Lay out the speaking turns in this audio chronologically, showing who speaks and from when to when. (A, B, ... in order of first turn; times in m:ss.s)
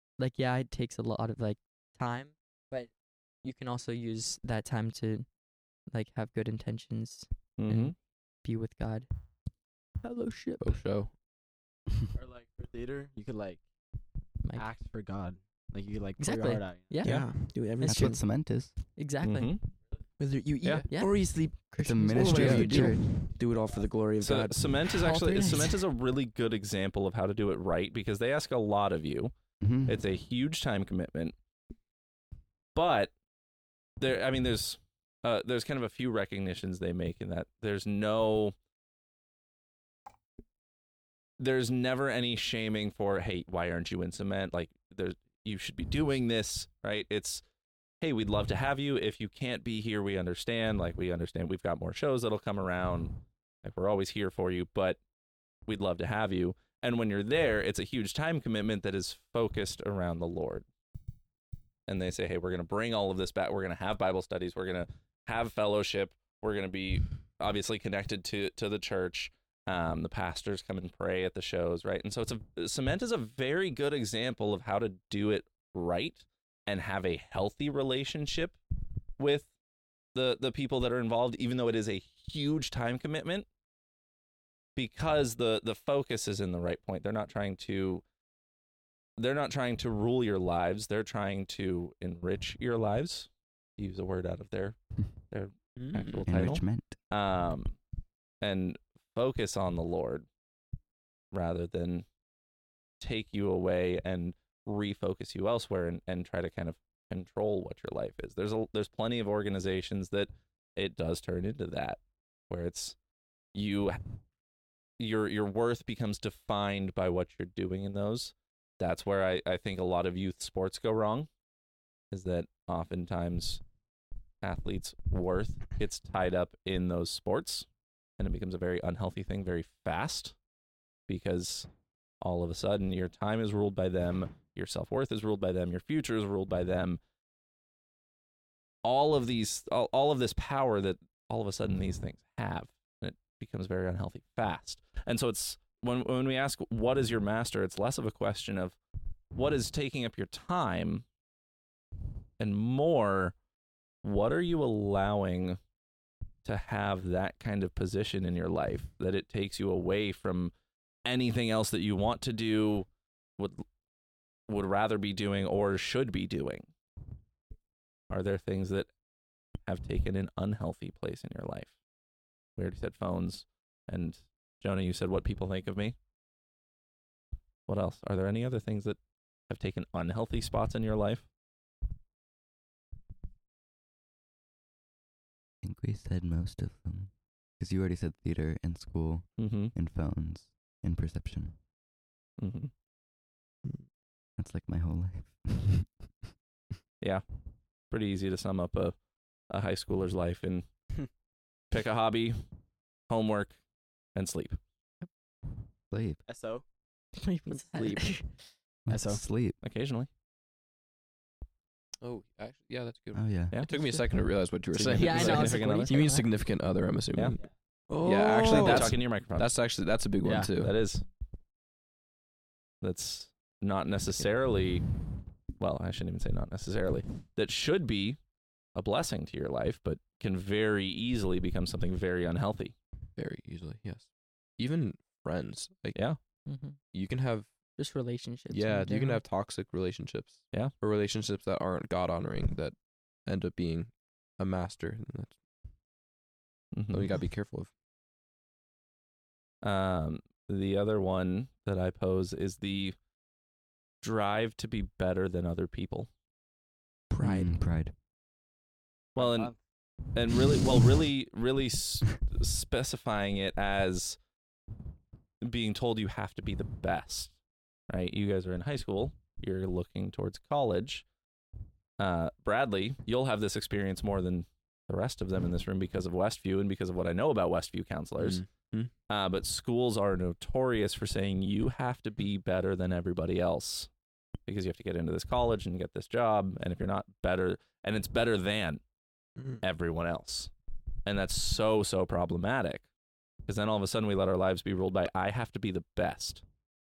0:00.2-0:02.9 A
0:03.4-0:05.3 A
0:05.9-0:09.1 A
0:07.6-0:07.9 B
0:10.0-0:10.5 A
0:10.6-0:11.1 C
0:12.1-0:13.6 D
0:14.5-0:17.0 D
0:16.2-0:18.2 A
0:17.0-0:18.2 E
0:17.8-0:18.7 F
0:19.0-0:19.6 A
0:19.2-0:19.6 B
0:20.2-0:21.6 E
0:20.9-0:22.9 A
0:21.8-0:23.1 F
0:22.1-0:24.8 E
0:24.2-0:31.4 B
0:24.9-0:25.8 A
0:29.6-0:30.0 F
0:32.7-0:33.1 B
0:34.0-0:38.5 B
0:41.4-0:47.4 B
0:48.0-0:55.0 B
0:55.6-1:00.6 B
1:01.9-1:18.6 B
1:19.2-1:19.5 B
1:20.1-1:23.4 B
1:24.8-1:28.0 B
1:29.2-1:34.8 B
1:35.3-1:37.8 B
1:35.8-1:36.5 C
1:36.2-1:37.0 F
1:38.4-1:40.2 B
1:41.3-1:42.0 B
1:43.0-1:53.0 B
1:53.5-1:54.0 B
1:55.0-2:01.3 B
2:02.1-2:03.6 B
2:04.4-2:07.7 B
2:08.2-2:10.3 B
2:11.1-2:11.7 B
2:12.2-2:17.0 B
2:18.8-2:28.8 B
2:29.3-2:31.0 B
2:32.4-2:33.3 B
2:34.0-2:35.6 B
2:36.4-2:40.5 B
2:41.0-2:42.9 B
2:43.4-2:43.6 B
2:44.5-2:46.7 B
2:48.1-2:48.9 B
2:49.6-2:51.7 B
2:52.6-2:56.0 B
2:57.7-2:59.0 B
2:59.5-3:01.3 B
3:05.6-3:11.6 F
3:09.4-3:09.7 B
3:12.4-3:12.7 B
3:14.4-3:15.8 F
3:17.9-3:19.0 B
3:19.5-3:20.7 B
3:21.7-3:22.4 B
3:23.1-3:23.6 B
3:24.1-3:24.6 B
3:25.9-3:26.2 F
3:26.3-3:26.6 D
3:27.2-3:28.6 A
3:27.5-3:28.0 E
3:28.9-3:29.6 F
3:28.9-3:29.2 D
3:29.6-3:30.1 B
3:32.0-3:37.4 C
3:33.1-3:33.6 F
3:33.6-3:34.1 A
3:34.7-3:35.4 D
3:35.0-3:36.3 A
3:35.0-3:36.0 B
3:37.9-3:38.8 E
3:38.0-3:40.7 C
3:38.4-3:39.5 B
3:38.5-3:38.8 D
3:40.2-3:40.5 D
3:40.6-3:41.0 B
3:42.8-3:44.9 B
3:45.6-3:48.2 B
3:48.7-3:52.7 B
3:53.2-3:56.1 C
3:55.9-3:56.2 B
3:56.4-3:56.8 A
3:56.9-3:57.5 C
3:57.8-3:59.2 A
3:58.5-4:05.4 C
4:06.7-4:07.1 B
4:06.9-4:07.7 C
4:09.6-4:13.0 B
4:14.0-4:16.1 B
4:17.1-4:17.5 E
4:17.2-4:17.9 F
4:19.1-4:19.5 B
4:19.2-4:19.6 D
4:20.1-4:24.2 B
4:25.4-4:27.3 B
4:27.9-4:31.0 B
4:32.0-4:38.4 B
4:38.2-4:38.9 C
4:39.1-4:43.9 B
4:44.4-4:48.8 B
4:49.6-4:50.5 B
4:51.0-4:52.9 B
4:53.5-4:56.4 B